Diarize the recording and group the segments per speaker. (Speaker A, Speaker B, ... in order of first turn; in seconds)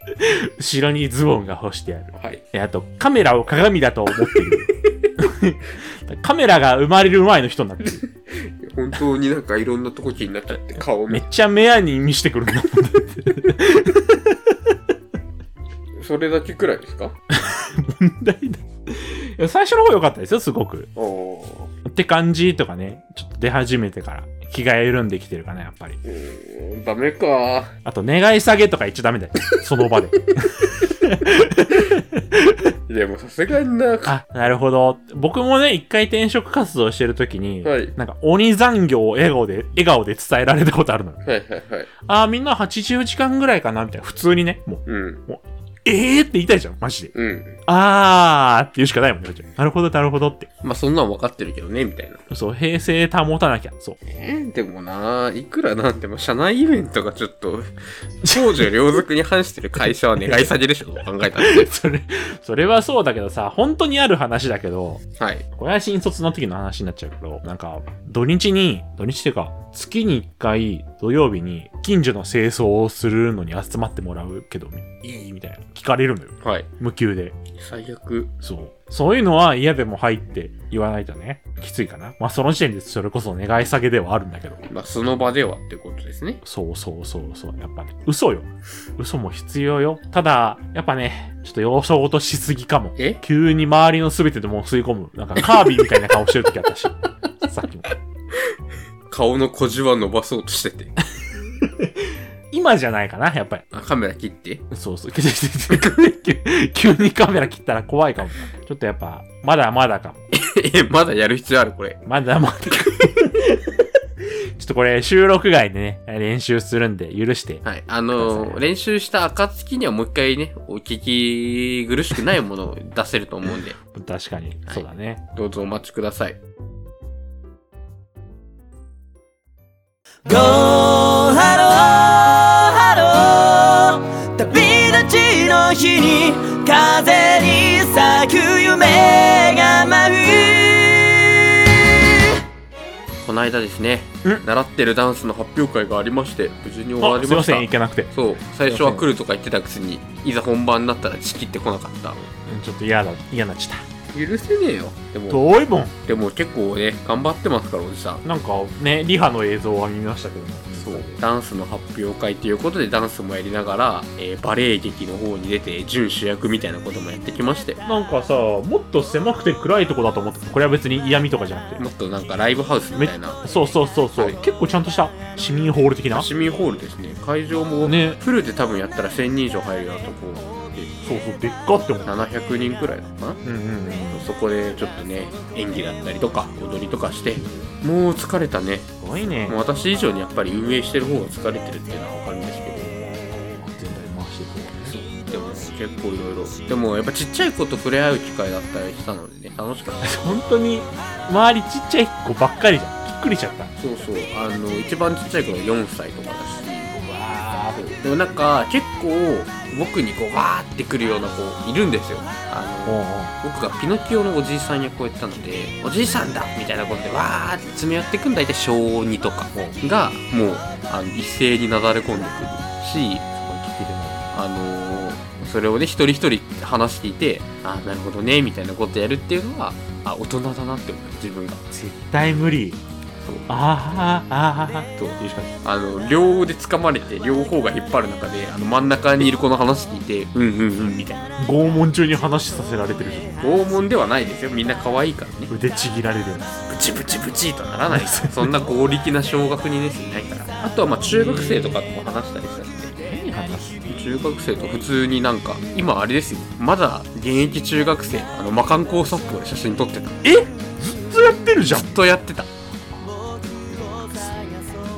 Speaker A: 0.2-8.0, 11.1-14.7, 17.3-20.9, 21.8-26.0, 27.8-32.7, 34.0-41.2, 42.0-47.1, 47.6-50.5, 52.3-54.0, 58.2-58.7, 61.4-77.4, 78.4-84.7, 86.4-97.9, 101.6-103.6, 104.7-110.2, 112.0-117.6, 118.1-118.6, 123.8-125.2, 147.0-149.1, 152.4-153.8, 155.3-155.9, 158.2-161.2, 167.8-171.9, 172.9-176.3, 177.8-178.2, 181.0-182.1, 183.4-184.3, 189.0-189.6, 193.0-194.9, 200.0-203.7, 206.9-208.0, 212.8-213.3, 223.2-224.3, 231.7-232.8, 233.5-235.5, 241.4-243.4, 245.5-246.6, 247.9-248.5, 251.1-251.8, 253.0-253.8, 260.2-262.0, 262.9-264.6
Speaker B: 2.1-2.4, 8.3-11.2, 15.9-17.1, 20.9-21.7, 26.0-27.7, 32.9-34.1, 37.6-37.9, 41.2-41.9, 44.9-45.2, 47.1-47.6, 50.6-52.2, 54.0-57.7, 58.2-61.7, 65.2-65.4, 76.4-76.7, 77.5-78.3, 84.7-86.4, 99.1-101.0, 103.7-104.6, 110.3-112.0, 117.6-123.8, 124.7-126.4, 143.2-152.2, 154.1-155.4, 156.0-158.2, 160.7-167.8, 171.8-173.4, 176.1-180.9, 182.0-183.4, 184.1-188.9, 189.4-193.0, 194.8-200.4, 203.8-206.9, 207.8-223.2, 224.3-231.6, 233.2-233.5, 234.9-241.3, 243.4-245.5, 246.7-252.9, 253.8-260.2, 261.6-262.5
Speaker C: 130.2-142.0